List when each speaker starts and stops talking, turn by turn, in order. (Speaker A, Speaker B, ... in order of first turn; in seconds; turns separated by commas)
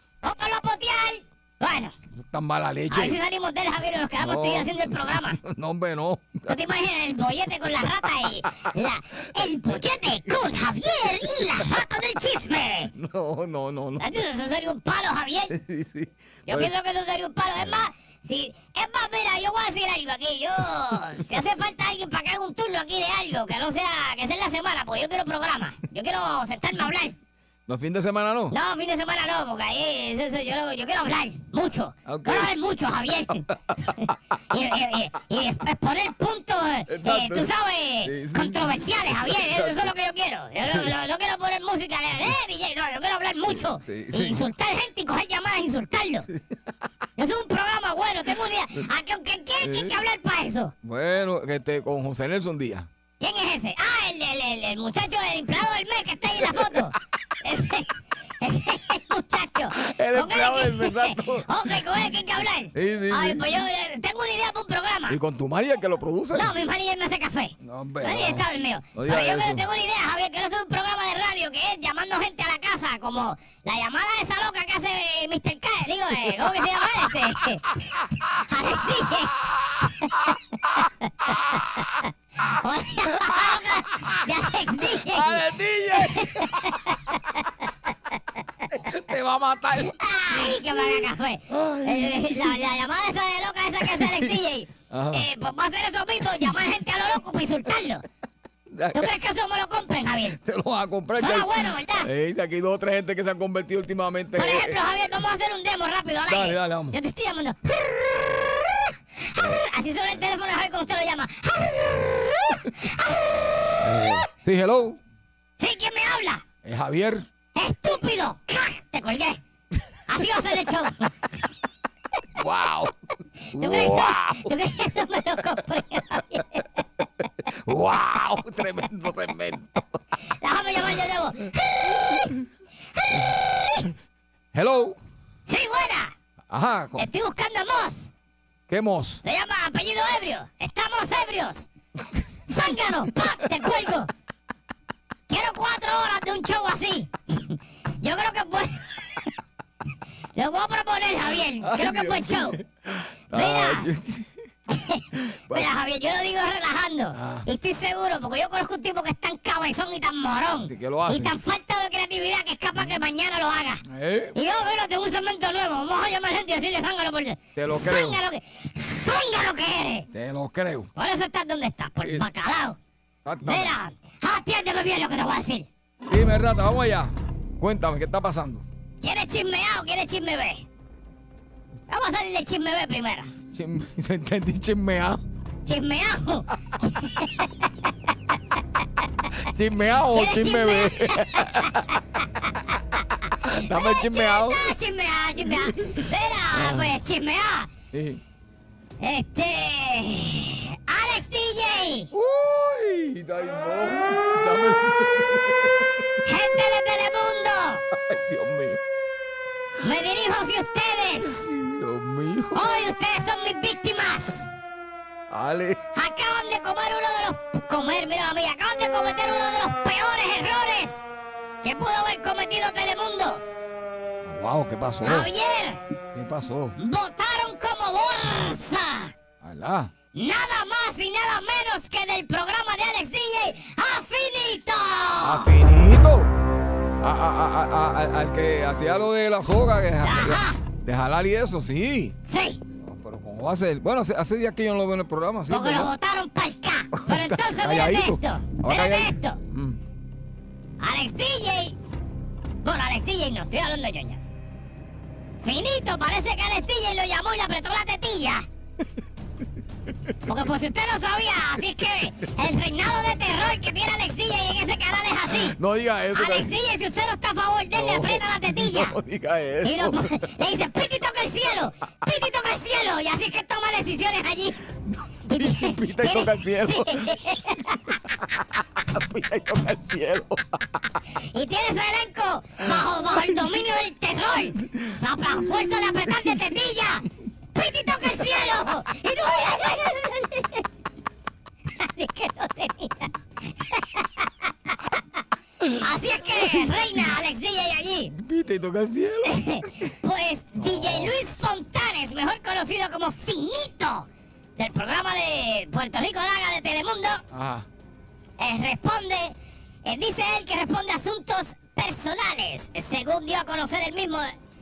Speaker A: 0.2-1.9, Speaker B: 2.2-3.2, Speaker A: 2.9-5.4, Speaker B: 4.2-6.6, Speaker A: 6.5-12.9, Speaker B: 12.9-14.1, Speaker A: 14.0-15.5, Speaker B: 15.5-16.7, Speaker A: 16.5-27.2, Speaker B: 17.6-17.9, Speaker B: 27.7-28.6, Speaker A: 28.5-46.3, Speaker B: 32.1-32.5, Speaker B: 36.9-39.9, Speaker B: 40.6-40.9, Speaker B: 43.5-44.5, Speaker A: 47.2-50.7, Speaker B: 49.6-50.0, Speaker B: 50.8-52.9, Speaker A: 53.2-65.2, Speaker B: 59.8-61.8, Speaker B: 62.7-63.4, Speaker B: 65.1-66.5, Speaker A: 66.3-77.7, Speaker B: 67.6-69.7, Speaker A: 78.5-79.4, Speaker B: 79.5-79.8, Speaker A: 80.0-87.6, Speaker B: 81.3-81.6, Speaker B: 83.1-84.2, Speaker B: 84.8-86.7, Speaker B: 88.7-92.6, Speaker A: 89.8-98.0, Speaker B: 93.8-95.3, Speaker B: 96.3-96.6, Speaker B: 98.7-99.1, Speaker A: 98.9-100.4, Speaker B: 100.3-104.8, Speaker A: 101.2-102.1, Speaker A: 104.4-108.0, Speaker B: 106.3-107.0, Speaker A: 109.2-114.1, Speaker B: 113.8-115.0, Speaker A: 115.6-116.4, Speaker B: 116.6-117.2, Speaker A: 117.5-119.4, Speaker A: 120.1-121.2, Speaker B: 122.4-122.9, Speaker B: 123.5-124.5, Speaker A: 123.5-126.8, Speaker B: 127.4-129.8, Speaker A: 130.4-132.3, Speaker A: 132.9-133.9, Speaker B: 134.5-135.0, Speaker A: 135.5-136.2, Speaker B: 136.5-137.1, Speaker A: 136.9-138.1, Speaker B: 138.7-139.2, Speaker A: 139.2-141.7, Speaker A: 142.5-144.1, Speaker A: 145.3-149.1, Speaker A: 150.4-152.6, Speaker B: 151.6-154.3, Speaker A: 153.3-153.9, Speaker A: 154.7-163.8, Speaker B: 155.2-155.7, Speaker B: 157.1-157.5, Speaker B: 160.6-161.3, Speaker B: 163.8-164.3, Speaker A: 164.3-170.1, Speaker B: 167.6-168.2, Speaker B: 170.1-170.9, Speaker A: 170.9-172.8, Speaker B: 173.2-173.8, Speaker A: 173.4-175.7, Speaker B: 176.1-178.7, Speaker A: 179.0-180.7, Speaker A: 181.9-183.3, Speaker B: 183.5-185.2, Speaker A: 185.7-187.9, Speaker B: 189.4-192.0, Speaker A: 190.1-192.2, Speaker A: 193.4-197.7, Speaker B: 193.4-194.8, Speaker B: 195.6-196.0, Speaker B: 196.5-196.9, Speaker B: 197.9-198.2, Speaker A: 199.0-202.1, Speaker B: 202.1-205.9, Speaker A: 206.2-207.8, Speaker B: 207.9-208.8, Speaker A: 209.8-211.5, Speaker B: 211.4-212.9, Speaker A: 212.5-214.5, Speaker B: 215.3-215.8, Speaker A: 215.9-221.0, Speaker A: 221.6-223.4, Speaker B: 224.2-225.3, Speaker A: 225.0-225.8, Speaker B: 226.1-226.8, Speaker A: 226.8-229.1, Speaker B: 229.4-229.9, Speaker A: 230.1-235.5, Speaker B: 235.2-236.3, Speaker B: 237.0-242.2, Speaker A: 240.0-240.6, Speaker A: 242.2-242.6, Speaker B: 242.8-245.9, Speaker A: 245.5-249.4, Speaker B: 247.0-249.8, Speaker A: 250.8-251.8, Speaker A: 252.6-254.2, Speaker A: 255.4-258.4, Speaker A: 260.3-265.6, Speaker B: 265.4-266.5, Speaker A: 266.1-269.0, Speaker B: 267.7-270.2, Speaker A: 269.6-274.6, Speaker A: 275.3-278.0, Speaker B: 275.3-277.6, Speaker B: 278.2-280.8, Speaker A: 281.3-290.6, Speaker B: 284.7-286.6, Speaker A: 291.7-295.0, Speaker A: 295.6-298.1, Speaker B: 296.3-296.7, Speaker B: 298.2-299.9, Speaker A: 299.2-307.2, Speaker B: 300.6-301.1, Speaker B: 307.3-307.7, Speaker A: 308.4-309.3, Speaker A: 309.8-314.3